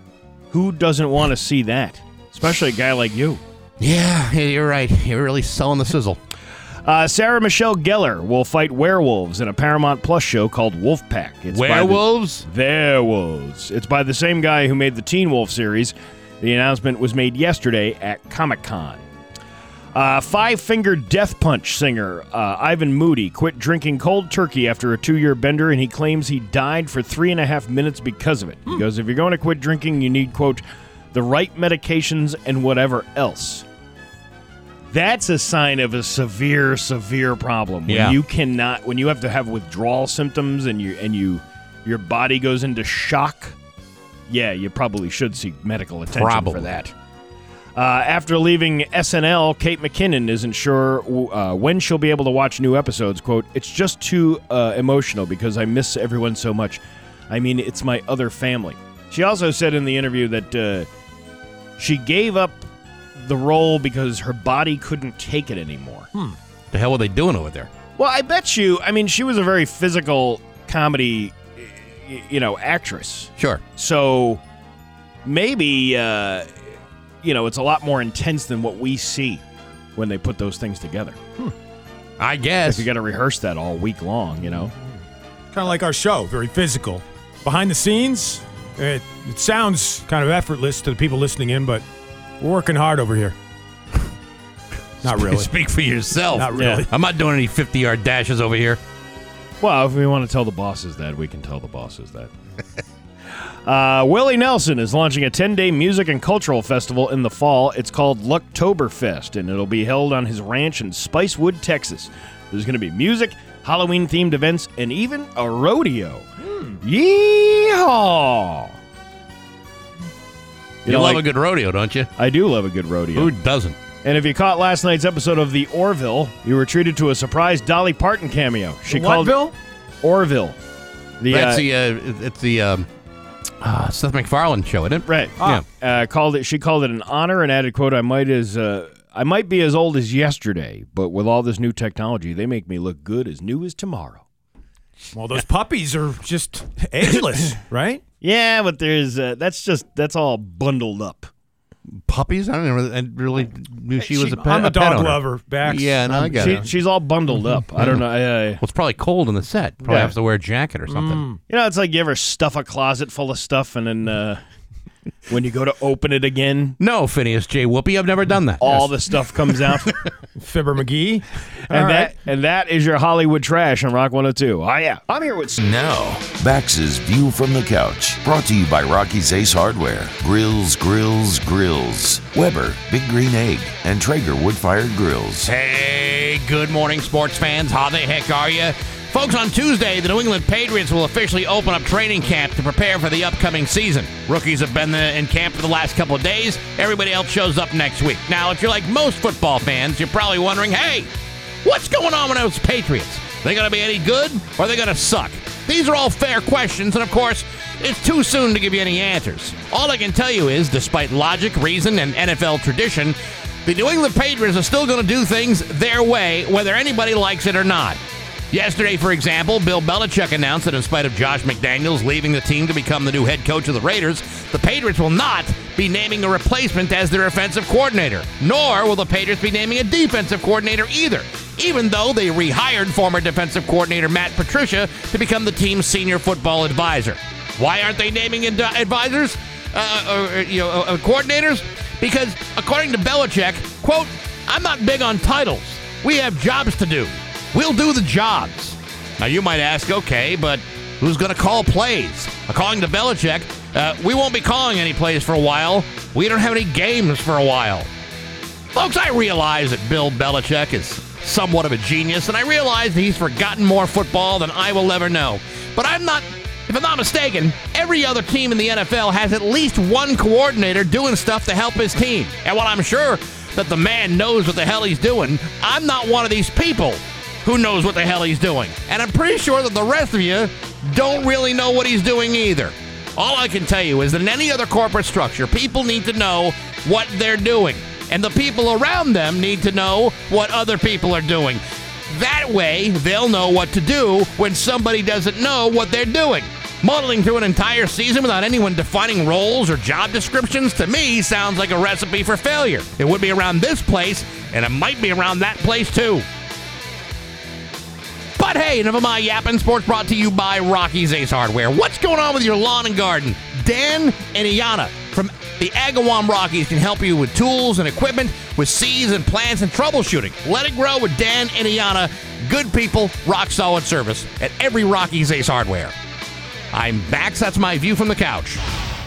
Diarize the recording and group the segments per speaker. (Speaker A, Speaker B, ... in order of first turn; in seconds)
Speaker A: 0.5-3.4, 6.8-19.0, 19.9-33.6, 34.9-43.5, 44.3-46.9, 47.8-60.9, 61.8-66.1, 68.0-74.4, 75.2-76.7, 77.2-79.4, 80.0-81.2, 82.7-84.7, 96.6-96.8, 99.6-102.3, 103.6-116.3, 116.8-118.8, 120.8-121.2, 122.2-123.3, 124.0-129.4, 130.0-130.6, 131.2-131.6, 135.1-144.2, 148.2-151.3, 156.3-158.6, 159.8-160.1, 161.5-164.4, 165.3-166.8, 168.6-170.0, 171.7-175.1
Speaker B: 3.8-6.2, 11.5-12.4, 37.9-38.2, 46.1-46.8, 66.7-67.7, 82.2-82.9, 95.0-98.8, 120.8-122.1, 123.1-123.8, 131.3-132.9, 133.6-135.6, 151.9-156.6, 158.6-161.2, 166.8-168.9, 185.4-201.1, 201.6-218.0, 218.5-257.9, 258.7-306.2, 308.4-325.9, 326.7-328.6
Speaker C: 85.5-91.8, 92.4-93.3, 95.0-95.5, 96.3-96.9, 116.4-116.8, 128.9-129.5, 145.1-148.0, 154.0-156.7, 160.9-161.4, 170.4-172.1
Speaker D: 175.1-185.5